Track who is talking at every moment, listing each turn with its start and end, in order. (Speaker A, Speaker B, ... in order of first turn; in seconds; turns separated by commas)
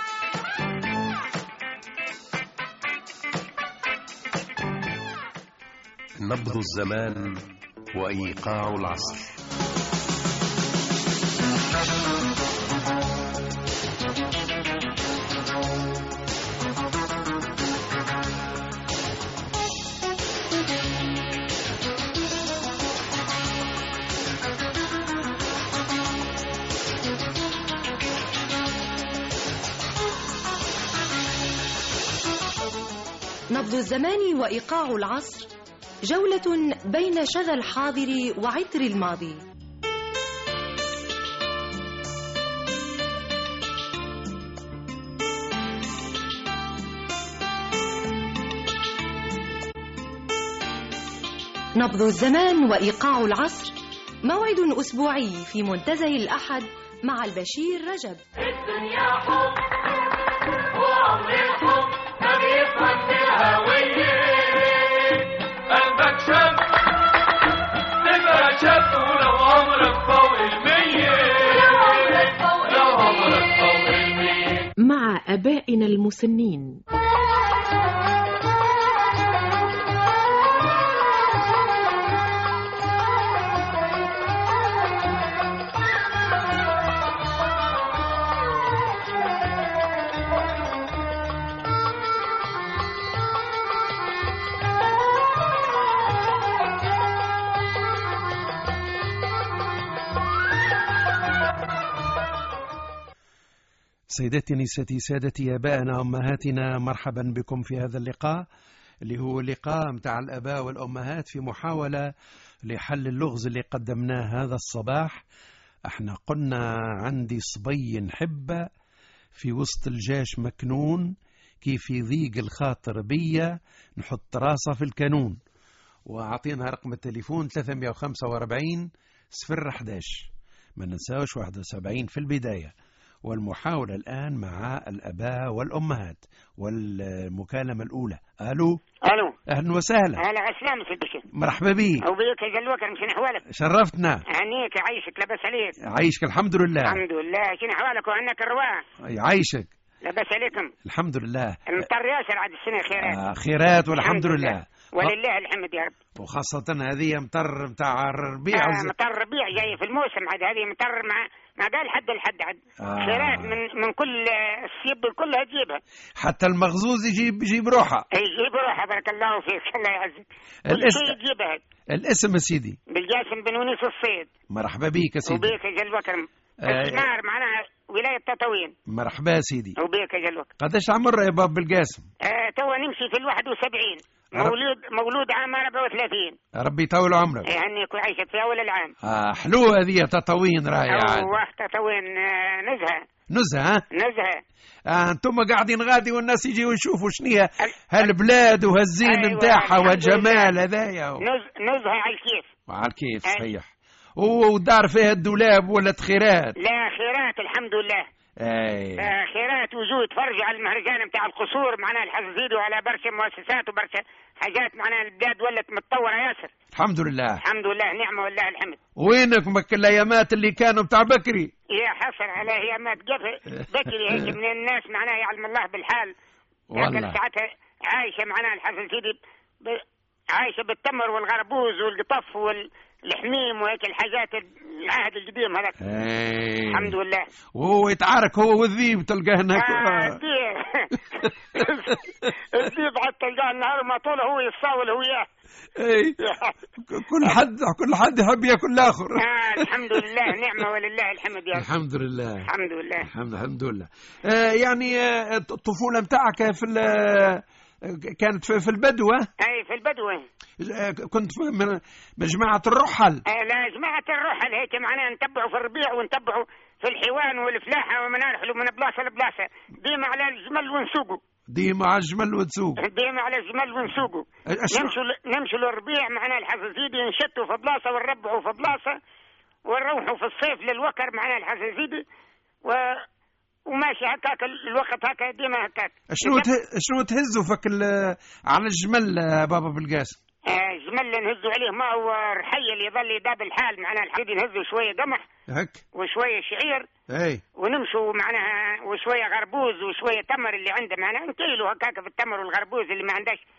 Speaker A: 6.2-7.4, Speaker A: 7.9-9.3, Speaker B: 33.5-35.5, Speaker B: 36.1-39.4, Speaker B: 51.8-58.2, Speaker C: 58.4-59.6, Speaker C: 60.7-66.6, Speaker C: 68.0-76.8, Speaker D: 104.1-108.5, Speaker D: 109.0-112.1, Speaker D: 112.7-115.2, Speaker D: 115.9-118.7, Speaker D: 119.3-125.4, Speaker D: 126.1-132.7, Speaker D: 133.2-138.8, Speaker E: 139.1-139.3, Speaker D: 139.5-140.2, Speaker E: 140.2-141.2, Speaker D: 141.3-142.1, Speaker E: 142.0-143.4, Speaker D: 143.5-144.2, Speaker E: 144.3-145.8, Speaker D: 145.8-147.0, Speaker E: 146.9-148.8, Speaker D: 149.0-149.7, Speaker E: 150.0-150.7, Speaker D: 150.8-151.8, Speaker E: 151.7-153.2, Speaker D: 153.0-155.1, Speaker E: 154.0-155.9, Speaker D: 156.2-158.9, Speaker E: 158.5-165.8, Speaker D: 162.8-163.6, Speaker D: 166.2-168.1, Speaker E: 168.1-171.6, Speaker D: 170.7-171.2, Speaker D: 171.9-172.8, Speaker E: 172.9-174.3, Speaker D: 174.5-175.6, Speaker E: 175.3-178.7, Speaker D: 176.7-177.1, Speaker D: 178.9-179.8, Speaker E: 179.8-180.5, Speaker D: 180.6-182.1, Speaker E: 182.2-186.4, Speaker D: 186.6-187.5, Speaker E: 187.5-188.9, Speaker D: 189.0-191.3, Speaker E: 190.9-193.0, Speaker D: 193.3-193.8, Speaker E: 193.9-194.4, Speaker D: 194.9-201.2, Speaker E: 199.0-200.5, Speaker E: 201.2-202.5, Speaker D: 202.7-206.6, Speaker E: 206.6-208.1, Speaker D: 208.4-209.1, Speaker E: 209.0-216.5, Speaker D: 216.7-217.4, Speaker E: 217.4-218.8, Speaker D: 219.0-221.5, Speaker E: 221.7-226.1, Speaker D: 226.7-227.2, Speaker E: 226.8-229.8, Speaker E: 230.3-235.8, Speaker D: 235.8-236.9, Speaker E: 236.7-237.3, Speaker D: 237.6-240.2, Speaker E: 239.6-245.3, Speaker D: 241.2-241.7, Speaker D: 245.8-246.2, Speaker E: 246.2-246.6, Speaker D: 246.8-250.0, Speaker E: 249.2-251.7, Speaker D: 251.5-252.5, Speaker E: 252.5-253.1, Speaker D: 253.0-259.3, Speaker E: 259.4-260.2, Speaker D: 260.6-263.2, Speaker E: 263.3-271.2, Speaker D: 271.5-272.8, Speaker E: 272.8-279.0, Speaker D: 274.5-274.9, Speaker E: 279.7-282.0, Speaker E: 282.6-283.0, Speaker E: 283.7-286.5, Speaker D: 286.1-290.2, Speaker E: 290.5-295.2, Speaker D: 295.5-295.8, Speaker E: 295.9-296.9, Speaker D: 297.1-297.4, Speaker E: 297.6-303.4